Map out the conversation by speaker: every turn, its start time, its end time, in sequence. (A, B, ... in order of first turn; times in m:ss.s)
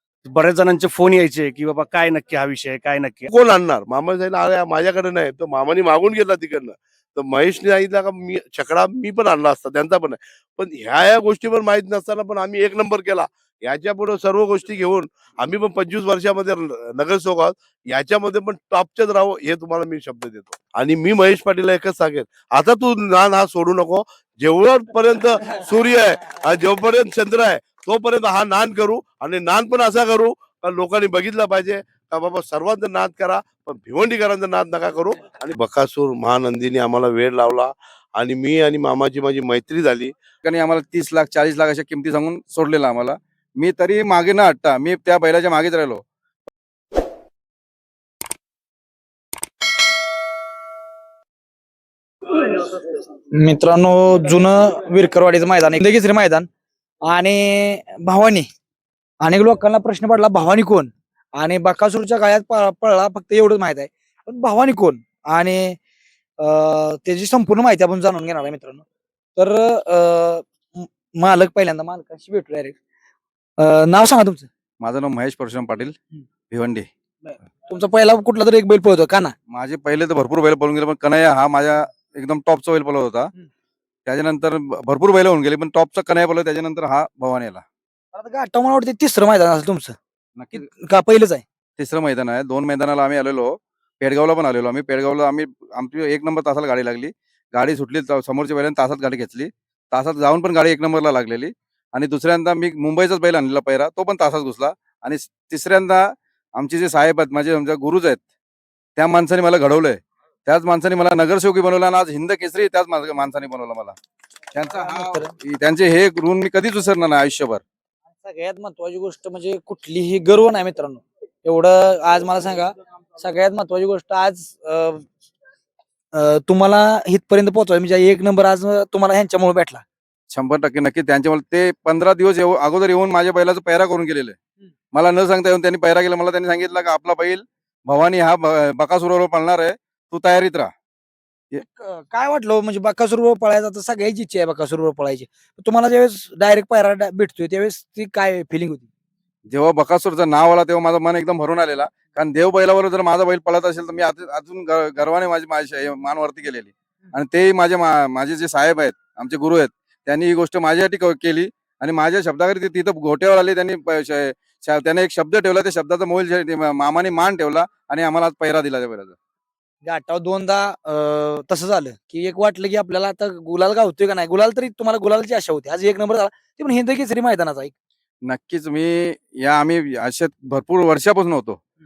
0:00.2-0:03.2 A
0:03.3-0:40.1 B
0:40.4-0:46.0 C
0:52.5-0:52.8 D
0:53.4-0:56.5 D
0:57.1-0:58.5 D
0:59.2-1:05.8 D
1:06.4-1:08.8 D
1:09.4-1:12.7 D
1:13.6-1:14.5 D
1:14.8-1:15.9 C
1:16.5-1:16.8 C
1:17.2-1:19.3 D
1:19.5-1:23.3 C
1:24.0-1:27.6 C
1:28.1-1:30.0 D
1:30.4-1:30.6 C
1:30.5-1:31.4 D
1:31.8-1:48.2 C
1:49.0-1:54.0 C
1:54.5-1:57.6 C
1:54.7-1:55.3 D
1:58.2-2:05.0 D
2:06.2-2:09.8 D
2:10.3-2:14.4 C
2:14.9-2:20.7 C
2:21.8-2:28.9 D
2:29.5-2:49.1 C
2:49.8-2:57.7 D
2:58.2-3:01.6 C